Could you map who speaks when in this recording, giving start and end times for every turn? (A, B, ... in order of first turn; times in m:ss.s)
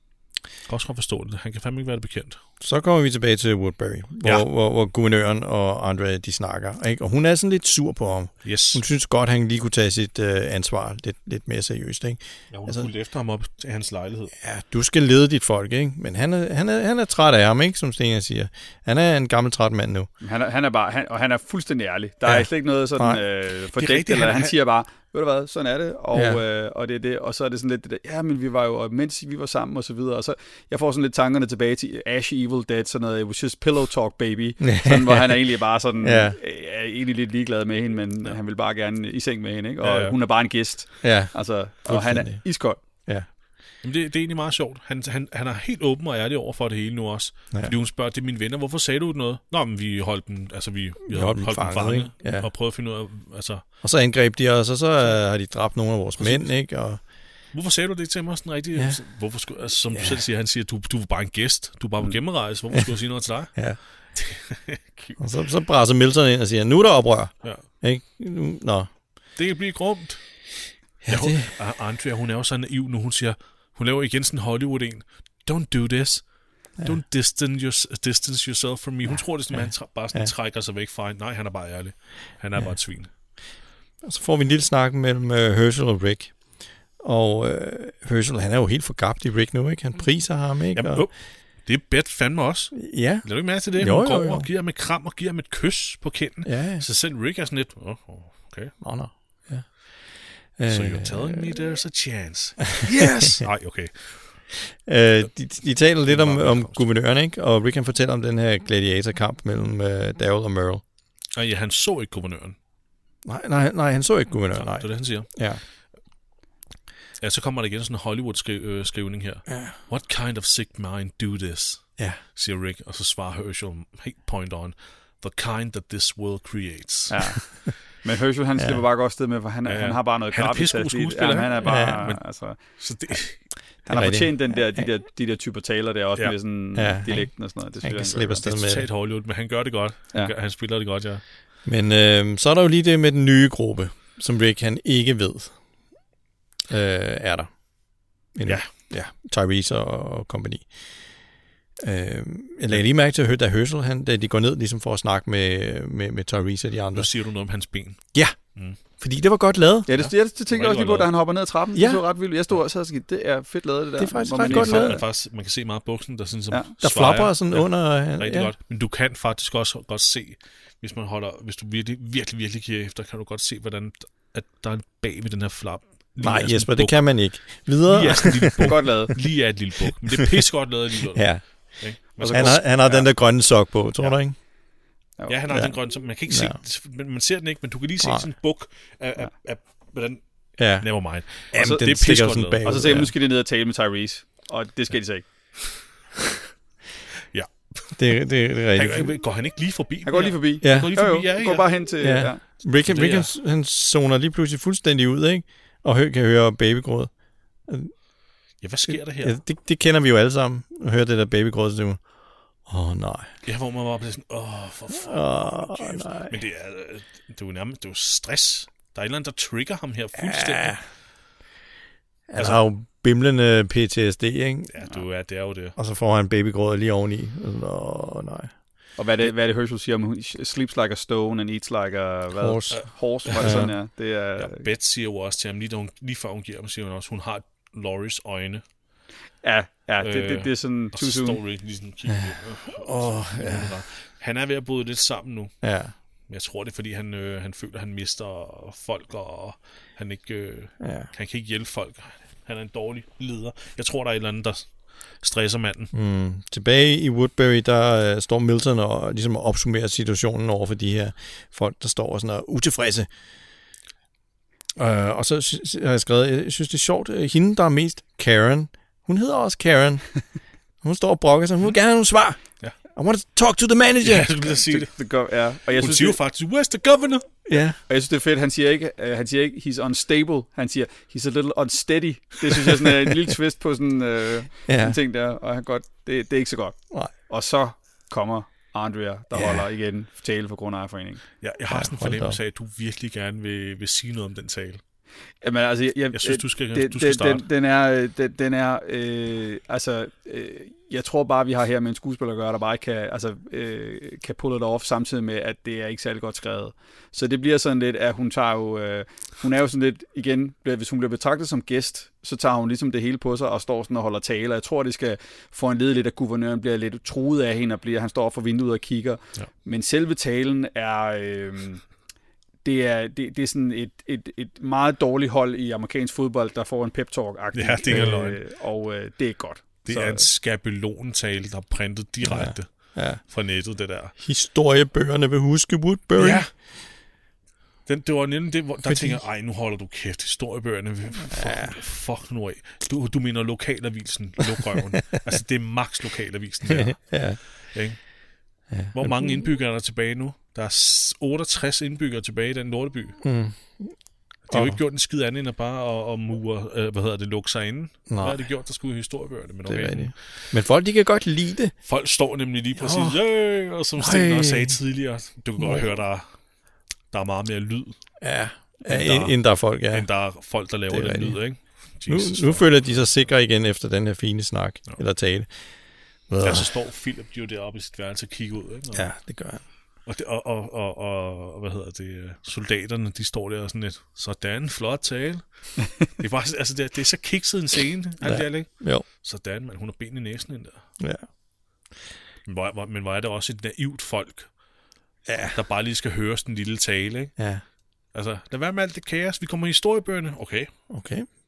0:00.7-0:02.4 A
0:02.6-0:12.9 B
0:08.4-0:08.8 A
0:12.5-0:14.3 A
0:14.4-0:20.1 B
0:20.2-0:42.8 C
0:22.3-0:23.2 B
0:23.8-0:24.6 A
0:26.1-0:26.4 B
0:34.6-0:35.5 B
0:36.0-0:36.4 B
0:39.8-0:40.2 A
0:41.0-0:42.4 B
0:43.8-0:53.6 A
0:51.1-0:52.5 B
0:53.8-0:57.0 B
0:56.2-0:56.5 A
0:57.5-1:03.6 A
0:59.9-1:00.2 B
1:04.1-1:05.2 A
1:05.2-1:08.9 B
1:09.4-1:10.2 A
1:11.0-1:11.5 B
1:11.1-1:16.3 A
1:16.8-1:23.1 A
1:19.5-1:20.3 B
1:24.0-1:26.4 B
1:27.0-1:31.1 B
1:30.7-1:38.7 A
1:32.7-1:34.5 B
1:36.4-1:36.9 B
1:38.8-1:39.9 B
1:40.6-1:41.5 B
1:40.7-1:44.4 A
1:42.8-1:43.4 B
1:44.6-1:50.8 B
1:46.1-1:46.8 A
1:51.4-1:52.6 A
1:53.3-1:55.6 B
1:54.6-1:55.3 A
1:57.2-2:07.2 A
1:59.5-1:59.8 B
2:07.1-2:12.6 C
2:09.7-2:12.2 A
2:11.6-2:12.1 B
2:12.7-2:13.4 A
2:13.9-2:18.5 C
2:13.9-2:14.8 B
2:16.8-2:18.9 B
2:18.4-2:21.2 A
2:21.6-2:25.6 B
2:26.7-2:27.5 B
2:28.4-2:30.7 B
2:31.8-2:37.1 B
2:36.9-2:38.0 A
2:39.0-2:39.9 B
2:39.9-2:45.0 C
2:40.0-2:41.1 A
2:41.8-2:42.0 B
2:44.0-2:45.0 B
2:44.4-2:57.0 A
2:46.8-2:48.5 B
2:56.2-2:59.1 B
2:57.9-3:02.6 A
2:58.6-2:59.2 C
3:01.1-3:01.6 B
3:02.2-3:03.1 C
3:02.2-3:04.4 B
3:05.3-3:10.2 A
3:05.5-3:05.8 B
3:06.3-3:06.6 B
3:08.0-3:08.3 B
3:10.6-3:13.1 B
3:10.8-3:12.7 A
3:11.5-3:12.0 C
3:12.6-3:15.2 C
3:17.3-3:18.2 A
3:18.0-3:19.1 B
3:18.7-3:21.7 A
3:20.1-3:22.4 C
3:20.6-3:21.0 B
3:22.0-3:27.1 B
3:22.8-3:23.3 A
3:27.7-3:27.9 B
3:28.6-3:29.4 A
3:28.9-3:32.0 B
3:32.7-3:33.3 B
3:33.4-3:40.8 A
3:34.9-3:36.4 B
3:40.2-3:40.8 B
3:42.3-3:44.8 B
3:42.4-3:42.6 A
3:44.7-3:45.8 A
3:45.8-3:48.5 B
3:49.0-3:54.7 C
3:52.4-3:53.7 B
3:52.7-3:53.7 A
3:54.4-3:58.6 A
3:59.4-4:01.4 C
4:00.0-4:05.5 A
4:02.1-4:03.7 B
4:05.6-4:05.9 B
4:06.3-4:15.9 A
4:10.8-4:11.1 B
4:15.9-4:23.1 B
4:24.8-4:30.1 B
4:30.8-4:32.4 B
4:32.9-4:34.4 B
4:34.0-4:34.9 A
4:34.6-4:36.2 C
4:35.8-4:37.3 A
4:37.5-4:37.8 B
4:37.9-4:51.2 C
4:44.7-4:45.0 B
4:49.3-4:49.7 B
4:51.4-4:54.8 A
4:51.7-4:52.4 B
4:55.4-5:21.8 C
4:56.1-4:57.4 A
5:22.6-5:30.3 C
5:27.5-5:28.4 A
5:29.9-5:34.1 A
5:32.2-5:33.2 B
5:34.2-5:36.5 B
5:36.2-5:36.5 A
5:37.9-5:48.0 A
5:38.9-5:39.2 B
5:41.3-5:41.8 B
5:46.7-5:47.6 B
5:48.7-5:49.5 B
5:48.9-5:53.2 A
5:53.2-5:54.0 B
5:54.5-6:00.2 A
5:54.5-5:54.8 B
5:58.1-5:58.4 B
5:59.7-6:01.7 B
6:01.8-6:06.2 A
6:02.8-6:03.2 B
6:04.0-6:04.8 B
6:05.6-6:05.8 B
6:07.1-6:08.0 A
6:08.2-6:10.1 B
6:08.8-6:09.4 A
6:09.9-6:13.0 A
6:10.9-6:11.4 B
6:12.1-6:15.5 B
6:16.3-6:16.7 B
6:16.4-6:19.1 A
6:18.9-6:19.6 B
6:20.1-6:25.4 A
6:26.0-6:30.8 A
6:28.2-6:29.1 B
6:32.5-6:34.5 A
6:35.3-6:35.6 B
6:35.5-6:37.3 A
6:37.4-6:37.6 B
6:38.1-6:40.7 A
6:40.9-6:41.3 B